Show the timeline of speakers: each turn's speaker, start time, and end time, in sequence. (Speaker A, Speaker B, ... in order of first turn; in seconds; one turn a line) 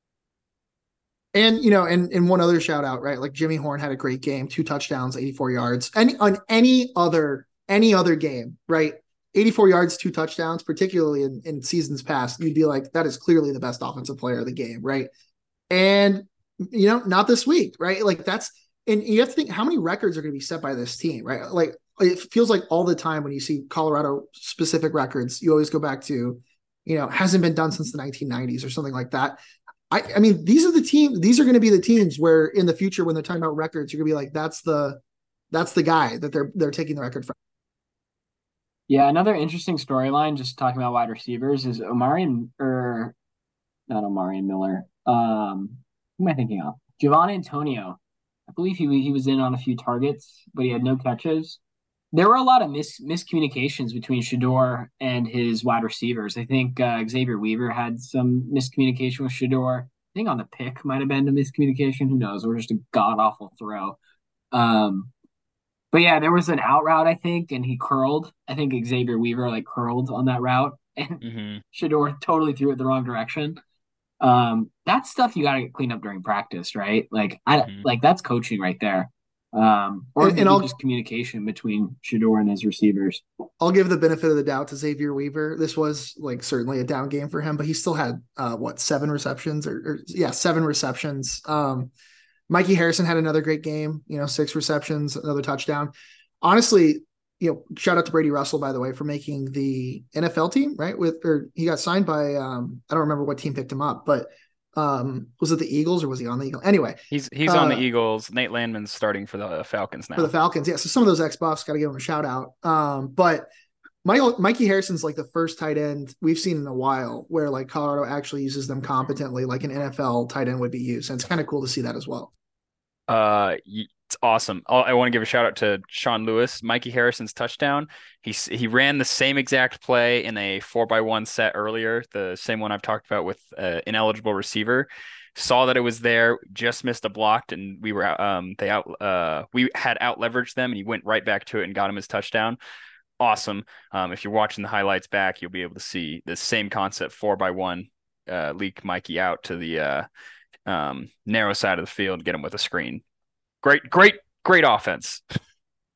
Speaker A: 1.4-15.1
Speaker A: 15.7-37.3
Speaker B: 38.9-43.1
Speaker B: 43.9-51.6
Speaker B: 52.1-64.0
Speaker B: 64.5-65.1
Speaker B: 65.9-73.6
Speaker C: 71.2-71.6
Speaker B: 74.2-83.2
Speaker A: 80.2-80.7
Speaker A: 83.6-91.9
Speaker A: 92.5-107.8
Speaker C: 107.1-110.3
Speaker A: 110.2-113.5
Speaker A: 114.0-122.3
Speaker C: 123.1-142.6
Speaker C: 143.2-150.1
Speaker C: 150.7-153.0
Speaker C: 153.6-155.2